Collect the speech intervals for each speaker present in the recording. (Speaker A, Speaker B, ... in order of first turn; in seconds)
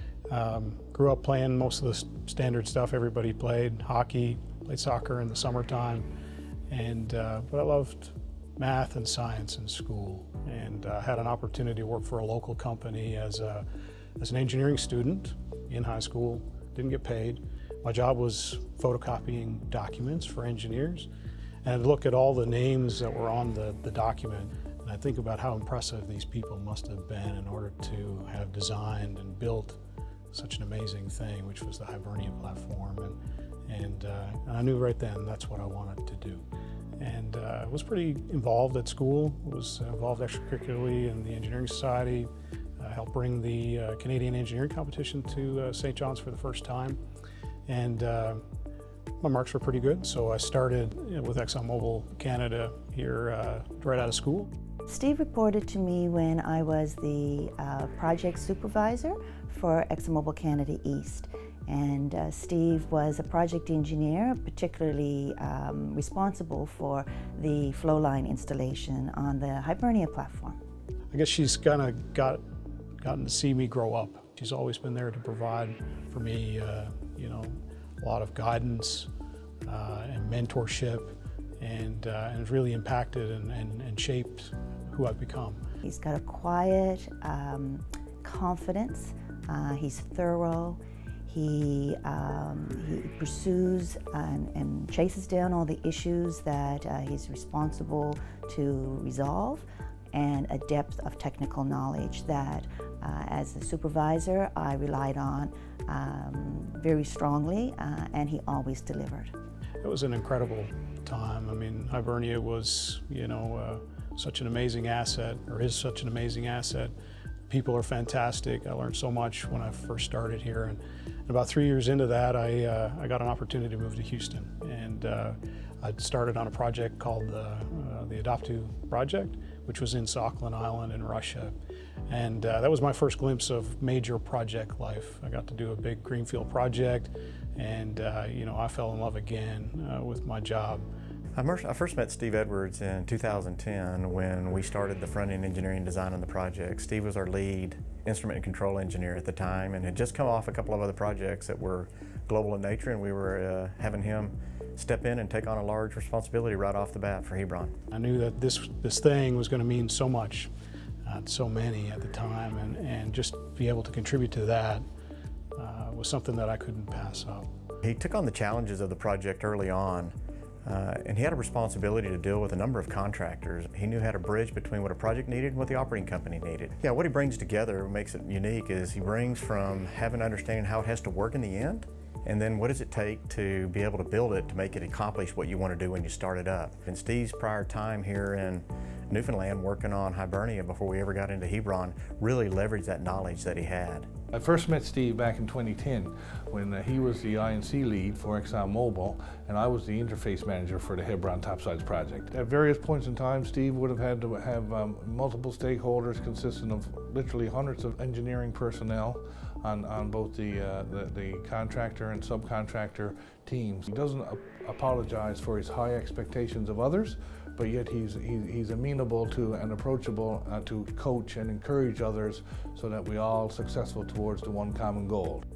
Speaker A: 0.3-6.0, 6.7-13.7, 14.2-21.1, 21.6-29.8, 30.3-33.1, 33.7-36.4, 37.0-42.3, 42.8-47.0, 47.7-48.4, 49.2-54.5, 71.1-72.4, 73.0-79.1, 79.6-85.6, 109.8-116.9, 117.5-131.5, 132.1-140.8, 157.9-160.5, 161.0-164.8, 165.5-167.5
Speaker B: 54.9-70.6, 85.8-109.3
Speaker C: 141.3-157.7, 167.8-194.1
Speaker D: 194.3-225.4